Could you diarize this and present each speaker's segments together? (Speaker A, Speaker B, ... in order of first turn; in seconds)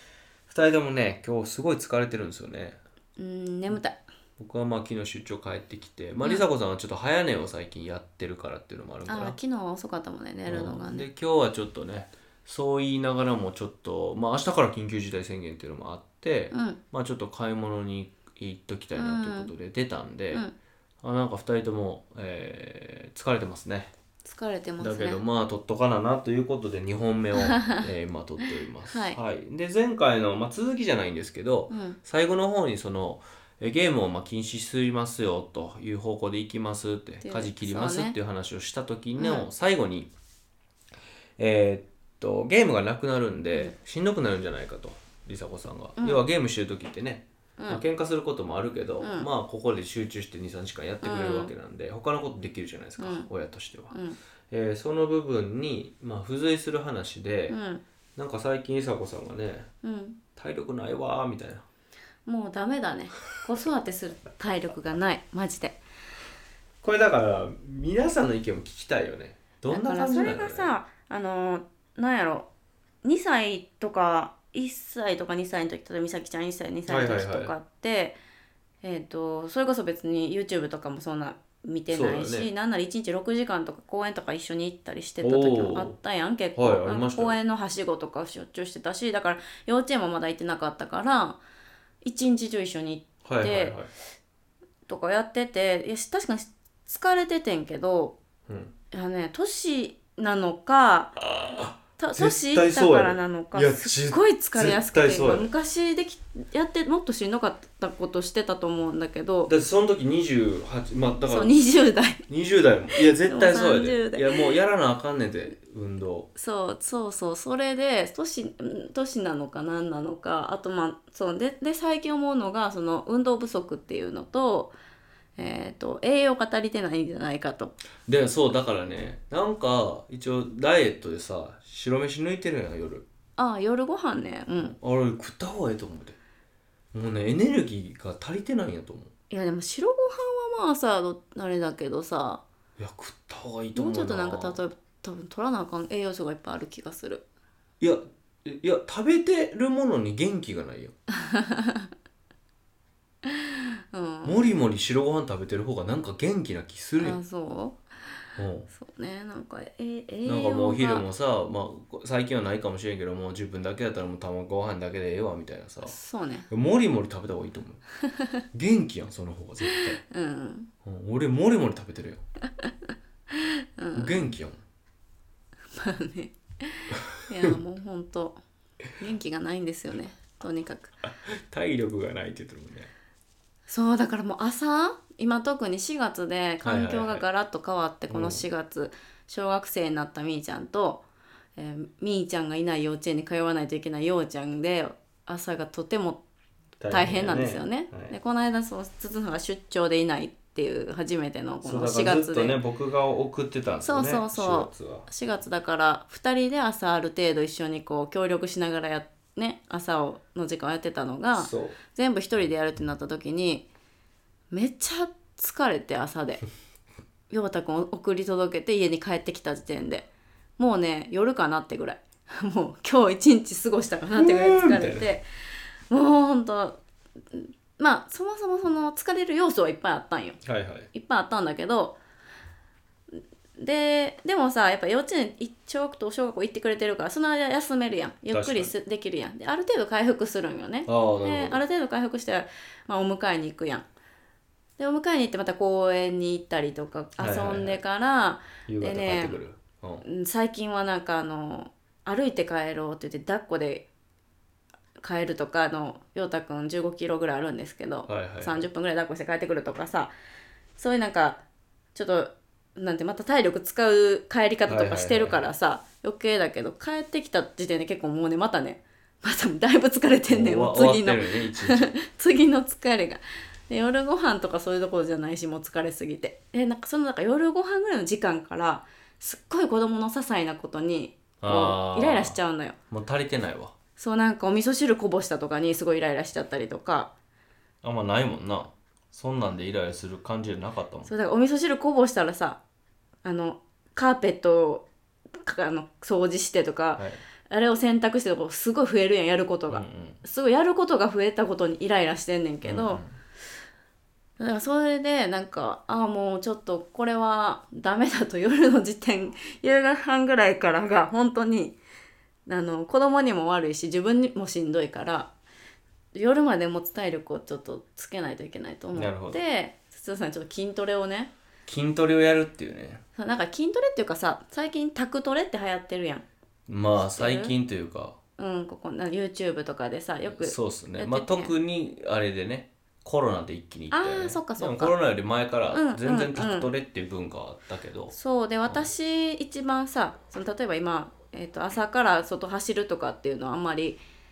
Speaker A: 0.5-2.8, 4.4-9.4, 10.5-20.4, 21.0-23.9, 24.8-40.1, 41.4-54.0, 54.5-57.6, 58.1-59.7, 60.4-61.6, 66.8-70.8, 76.9-77.5, 81.9-82.5, 85.2-86.0, 86.5-87.4, 93.2-93.9, 98.5-98.7, 101.2-105.5, 109.5-111.5, 112.3-116.3, 128.1-133.1, 134.6-136.2, 136.9-139.1, 142.8-144.6, 147.8-150.9, 154.2-157.2, 158.3-158.7, 160.2-165.9, 166.5-167.8, 168.5-170.0, 170.8-172.2, 173.9-174.6, 181.0-182.9, 186.6-187.2, 188.1-188.4, 196.8-198.1, 201.6-205.1, 211.3-211.8, 224.2-225.1, 230.4-230.9, 238.3-238.7, 240.9-241.6, 247.2-247.8, 248.7-250.0, 258.1-258.7, 264.7-265.5, 270.3-271.9, 281.4-282.4, 282.9-283.7, 287.8-291.1, 296.9-297.2, 299.7-300.2, 302.6-303.2, 318.9-319.4, 321.6-323.0, 326.7-328.2, 330.3-338.1
Speaker B: 3.2-4.0, 9.1-11.1, 16.5-16.8, 18.9-19.5, 24.2-25.2, 27.4-27.9, 28.4-29.2, 31.7-32.0, 37.2-38.1, 39.2-39.5, 49.0-49.3, 51.0-51.5, 53.0-53.3, 53.9-54.2, 57.5-57.8, 59.8-60.2, 62.2-65.8, 69.7-72.5, 73.0-78.2, 78.8-91.4, 92.0-93.8, 94.9-98.2, 98.9-101.1, 102.0-109.5, 111.2-112.3, 112.9-114.5, 116.3-124.7, 125.4-127.7, 133.4-134.7, 139.3-142.4, 143.7-147.2, 151.1-151.9, 153.2-154.6, 157.0-157.8, 158.7-161.1, 165.8-166.5, 168.0-168.3, 169.6-170.7, 172.6-174.3, 175.7-178.4, 179.0-180.9, 183.7-191.0, 191.6-196.2, 196.9-202.6, 203.8-213.6, 214.5-216.4, 217.3-220.1, 220.6-225.2, 225.9-226.8, 227.3-230.4, 230.9-232.0, 233.6-243.8, 244.8-249.4, 250.0-253.9, 255.0-260.1, 260.8-261.4, 261.9-282.8, 284.0-287.1, 291.1-292.6, 293.2-294.9, 295.4-303.0, 304.4-311.8, 312.4-315.3, 316.1-321.3, 323.2-326.2, 327.0-327.5, 328.4-331.5, 333.9-334.9, 335.7-336.7, 338.1-344.0